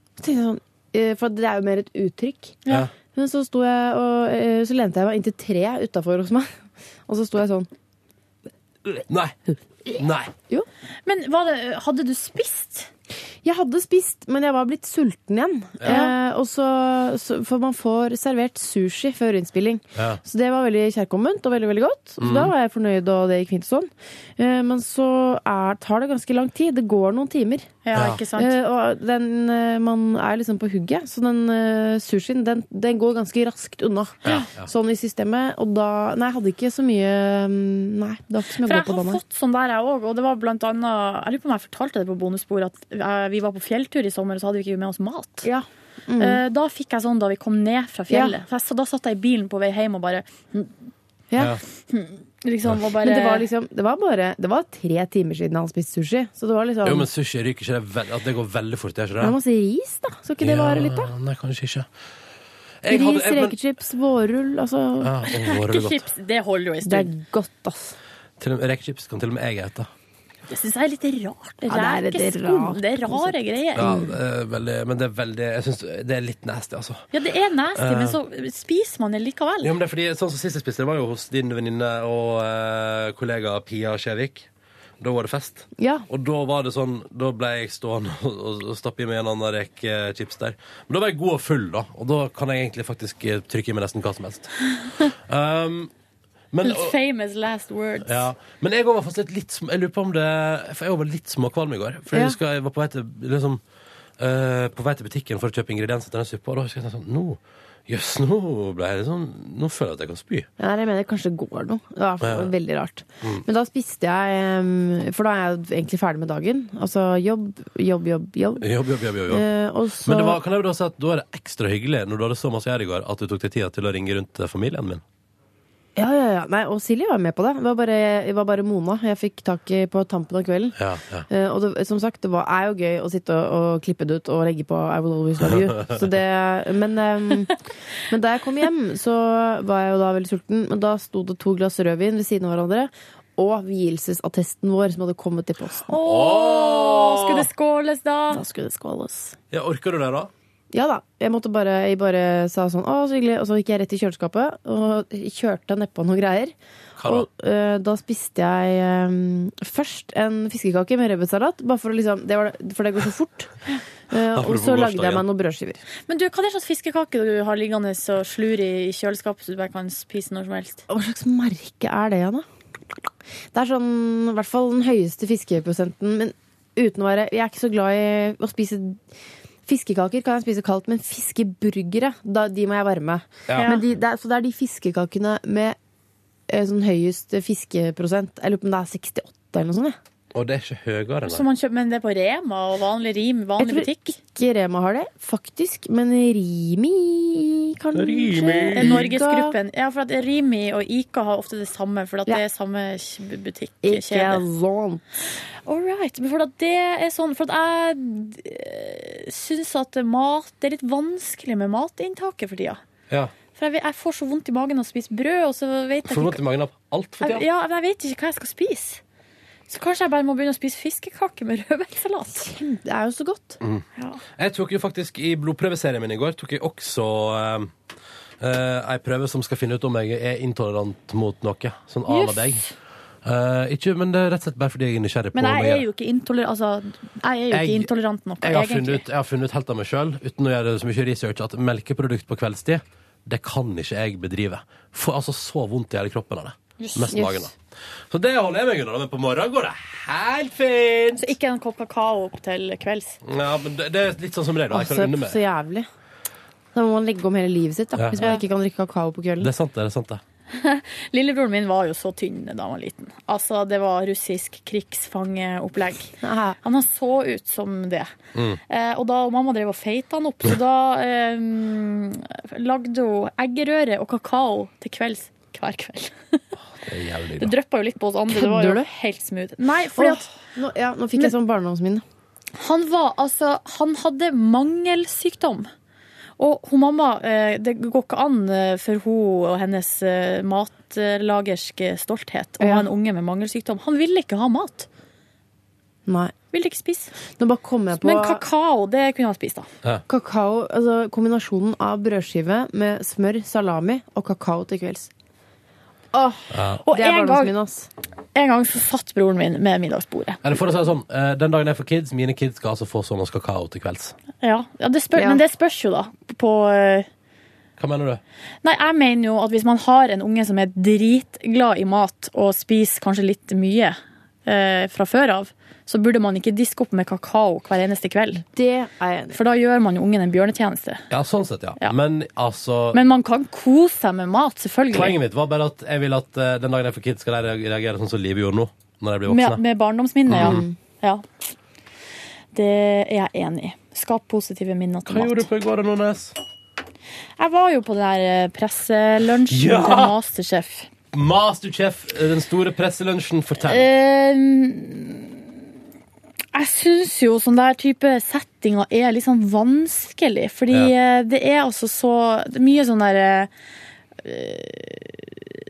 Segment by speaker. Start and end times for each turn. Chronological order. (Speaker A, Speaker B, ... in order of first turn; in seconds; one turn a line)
Speaker A: 0.2-2.6
Speaker A: 3.1-7.7
Speaker B: 9.1-9.4
Speaker B: 9.9-10.3
Speaker C: 11.1-12.9
Speaker A: 13.4-27.7
Speaker B: 15.8-16.1
Speaker C: 15.9-16.1
Speaker B: 19.9-20.2
Speaker B: 22.2-22.5
Speaker C: 27.8-28.5
Speaker B: 27.9-28.2
Speaker A: 28.3-39.2
Speaker B: 34.2-34.7
Speaker C: 38.6-45.5
Speaker A: 45.4-46.4
Speaker C: 46.2-50.7
Speaker A: 48.1-48.4
Speaker A: 51.3-51.6
Speaker B: 51.4-51.6
Speaker C: 51.9-53.5
Speaker A: 53.0-57.1
Speaker B: 56.8-59.4
Speaker A: 59.2-61.1
Speaker B: 60.4-61.9
Speaker B: 62.8-63.5
Speaker A: 62.9-65.1
Speaker B: 65.0-66.1
Speaker C: 65.3-67.1
Speaker A: 66.8-68.0
Speaker B: 68.4-69.9
Speaker C: 70.5-73.9
Speaker A: 71.6-74.1
Speaker B: 73.8-77.0
Speaker C: 77.1-79.7
Speaker B: 77.7-78.2
Speaker B: 79.6-84.5
Speaker B: 85.0-94.5
Speaker A: 85.8-86.0
Speaker B: 95.0-95.9
Speaker B: 96.5-96.9
Speaker C: 96.6-98.3
Speaker B: 98.0-103.6
Speaker B: 104.2-110.5
Speaker A: 110.6-118.7
Speaker B: 112.2-112.5
Speaker B: 118.6-119.5
Speaker A: 119.3-120.4
Speaker B: 120.0-125.0
Speaker A: 126.0-130.8
Speaker B: 130.8-131.3
Speaker A: 131.3-145.9
Speaker B: 135.4-135.8
Speaker C: 145.9-148.4
Speaker B: 145.9-147.5
Speaker A: 148.3-149.3
Speaker B: 149.5-150.3
Speaker A: 150.7-163.6
Speaker B: 157.0-157.2
Speaker A: 164.1-165.8
Speaker B: 164.3-165.2
Speaker C: 166.1-170.8
Speaker A: 170.9-172.4
Speaker A: 173.5-179.0
Speaker A: 179.7-185.8
Speaker B: 183.5-183.7
Speaker C: 183.5-183.8
Speaker A: 186.5-190.0
Speaker B: 190.3-191.4
Speaker C: 191.2-194.2
Speaker A: 193.6-199.5
Speaker B: 197.9-199.1
Speaker C: 198.7-204.4
Speaker A: 203.8-205.0
Speaker C: 205.7-212.8
Speaker C: 213.5-216.4
Speaker B: 216.1-217.4
Speaker C: 217.2-219.0
Speaker C: 219.7-222.4
Speaker A: 222.3-223.6
Speaker B: 224.3-227.7
Speaker B: 228.4-232.6
Speaker C: 232.1-232.7
Speaker B: 233.2-235.8
Speaker C: 235.3-239.0
Speaker B: 237.5-237.9
Speaker B: 238.4-247.6
Speaker C: 246.8-247.2
Speaker A: 247.1-247.5
Speaker B: 248.1-251.3
Speaker C: 251.2-253.2
Speaker B: 253.2-255.4
Speaker A: 254.7-255.9
Speaker A: 256.7-259.5
Speaker B: 257.9-258.3
Speaker B: 259.4-260.2
Speaker C: 260.5-268.1
Speaker A: 266.2-266.6
Speaker B: 268.3-268.6
Speaker C: 268.7-276.4
Speaker B: 276.8-277.5
Speaker C: 277.4-280.3
Speaker A: 278.3-278.9
Speaker A: 280.0-282.0
Speaker C: 282.6-285.7
Speaker C: 286.4-294.9
Speaker A: 292.6-292.9
Speaker A: 296.1-296.3
Speaker C: 296.5-297.1
Speaker A: 297.4-298.4
Speaker C: 298.0-299.7
Speaker A: 300.1-305.1
Speaker A: 306.1-307.9
Speaker B: 306.5-306.8
Speaker C: 306.9-307.5
Speaker C: 308.3-310.4
Speaker B: 310.4-314.1
Speaker C: 314.4-317.1
Speaker A: 315.1-315.4
Speaker B: 317.8-318.2
Speaker C: 318.6-328.4
Speaker A: 328.5-329.4
Speaker C: 329.3-331.0
Speaker B: 331.1-333.0
Speaker C: 332.9-335.1
Speaker B: 334.9-339.6
Speaker C: 339.3-341.3
Speaker B: 340.3-340.6
Speaker A: 340.4-340.7
Speaker C: 342.5-345.4
Speaker B: 345.1-346.4
Speaker C: 347.4-350.9
Speaker B: 349.5-350.1
Speaker B: 351.1-353.9
Speaker C: 353.6-355.5
Speaker C: 356.5-363.5
Speaker C: 364.2-365.3